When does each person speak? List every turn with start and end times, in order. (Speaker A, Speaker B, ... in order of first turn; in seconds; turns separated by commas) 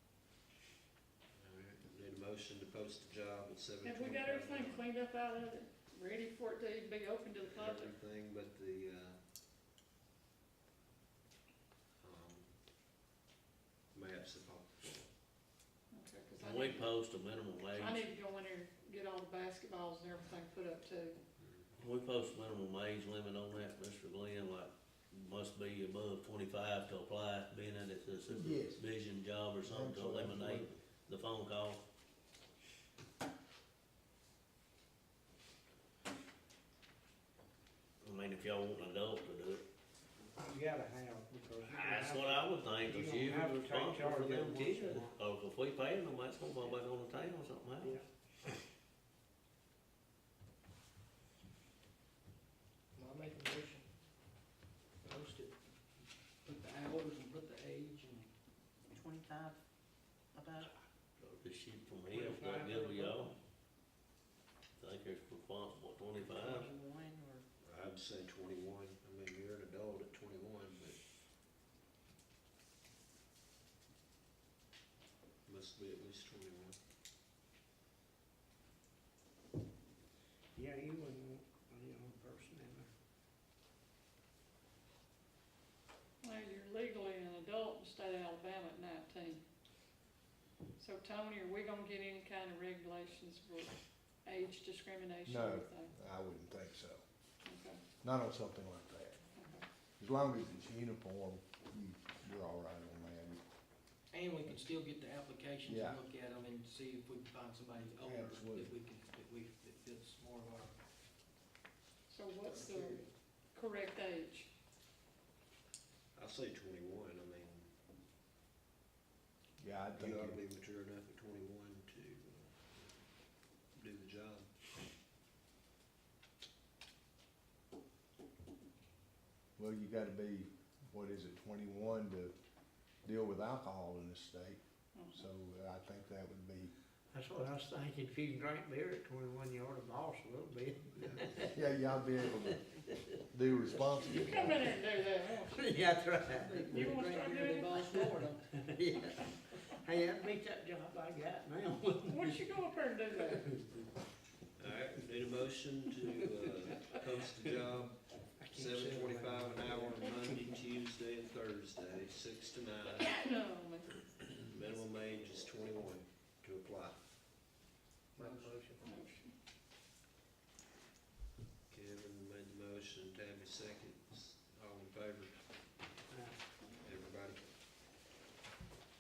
Speaker A: 1.4-4.9, Speaker B: 3.8-8.0, Speaker A: 7.4-9.2, Speaker A: 12.0-12.5, Speaker A: 13.9-15.1, Speaker B: 15.9-16.9, Speaker C: 16.4-18.1, Speaker B: 17.7-21.2, Speaker A: 21.4-21.8, Speaker C: 21.8-31.8, Speaker D: 28.3-28.8, Speaker D: 29.6-30.7, Speaker C: 38.0-39.6, Speaker E: 40.3-45.1, Speaker C: 41.7-48.0, Speaker F: 53.0-53.8, Speaker F: 55.0-55.5, Speaker F: 56.4-58.3, Speaker G: 58.9-59.6, Speaker G: 60.3-60.7, Speaker C: 61.2-63.3, Speaker E: 62.1-63.3, Speaker C: 64.8-66.7, Speaker G: 66.2-67.4, Speaker A: 67.6-71.0, Speaker A: 75.4-76.8, Speaker E: 80.5-82.9, Speaker B: 86.2-89.4, Speaker B: 90.8-95.9, Speaker D: 95.2-97.0, Speaker B: 97.4-97.8, Speaker D: 98.0-99.2, Speaker B: 99.4-99.6, Speaker D: 100.0-103.4, Speaker F: 104.1-110.7, Speaker D: 105.6-106.0, Speaker D: 108.0-108.7, Speaker B: 112.1-114.5, Speaker A: 116.1-117.7, Speaker D: 119.6-120.4, Speaker A: 120.0-123.0, Speaker A: 123.7-124.5, Speaker D: 129.6-132.3, Speaker D: 133.1-136.7, Speaker E: 137.1-141.6, Speaker A: 141.0-141.3, Speaker D: 141.5-142.7, Speaker D: 143.3-144.6, Speaker B: 144.0-145.7, Speaker E: 145.3-153.7, Speaker B: 146.7-148.2, Speaker F: 147.2-147.7, Speaker B: 152.1-153.5, Speaker A: 154.6-158.0, Speaker E: 156.7-157.7, Speaker E: 158.4-160.5, Speaker A: 158.5-163.1, Speaker B: 162.9-164.0, Speaker A: 164.4-167.0, Speaker E: 168.2-169.0, Speaker B: 168.8-169.3, Speaker A: 171.7-175.4, Speaker E: 176.1-176.4, Speaker A: 176.8-177.4